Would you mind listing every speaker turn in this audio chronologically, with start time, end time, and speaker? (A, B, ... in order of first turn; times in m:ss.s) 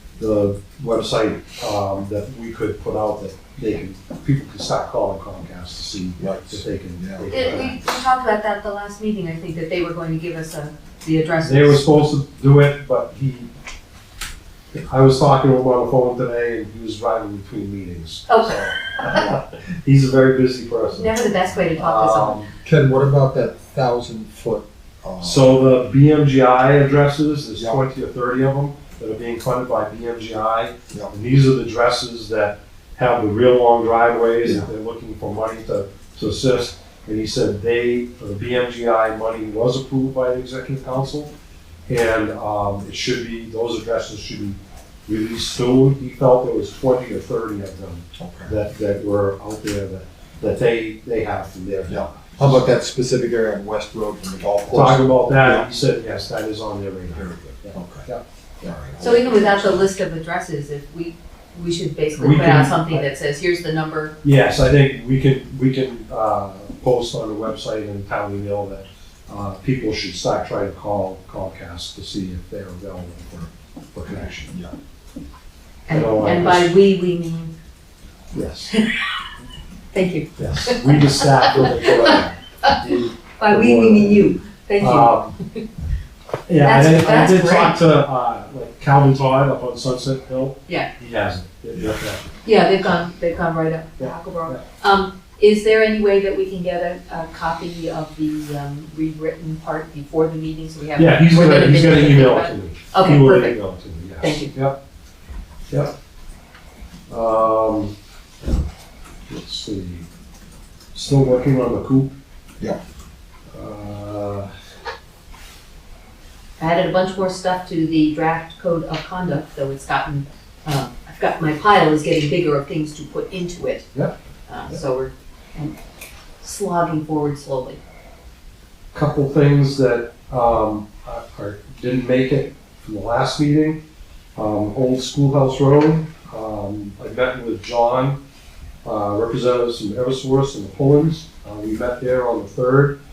0:00.2-0:07.8 A
0:06.2-0:07.3 B
0:07.3-0:11.8 C
0:11.4-0:13.5 A
0:14.7-0:21.1 A
0:18.3-0:19.2 C
0:20.9-0:22.4 C
0:21.7-0:22.5 A
0:22.6-0:25.5 B
0:25.2-0:41.3 A
0:27.6-0:27.8 B
0:41.9-0:52.6 A
0:48.2-0:48.5 B
0:51.9-0:55.6 B
0:54.7-0:58.2 A
0:57.1-0:58.1 B
0:58.6-0:59.8 B
0:59.0-1:04.2 C
1:02.1-1:03.0 A
1:04.2-1:14.5 A
1:14.5-1:14.7 B
1:15.9-1:17.5 C
1:15.9-1:16.7 A
1:18.3-1:18.7 A
1:18.7-1:19.2 C
1:19.9-1:22.7 C
1:20.4-1:25.3 A
1:23.4-1:25.6 C
1:26.5-1:32.3 A
1:26.6-1:27.8 C
1:31.7-1:32.0 B
1:32.4-1:43.6 C
1:34.0-1:34.6 A
1:41.0-1:44.8 A
1:44.2-1:44.5 C
1:47.1-1:47.9 A
1:49.3-1:50.1 A
1:50.9-1:52.1 A
1:53.5-1:54.5 A
1:56.6-2:03.9 C
2:04.5-2:05.8 C
2:06.4-2:07.8 C
2:08.9-2:13.8 A
2:14.4-2:18.2 A
2:18.8-2:23.0 A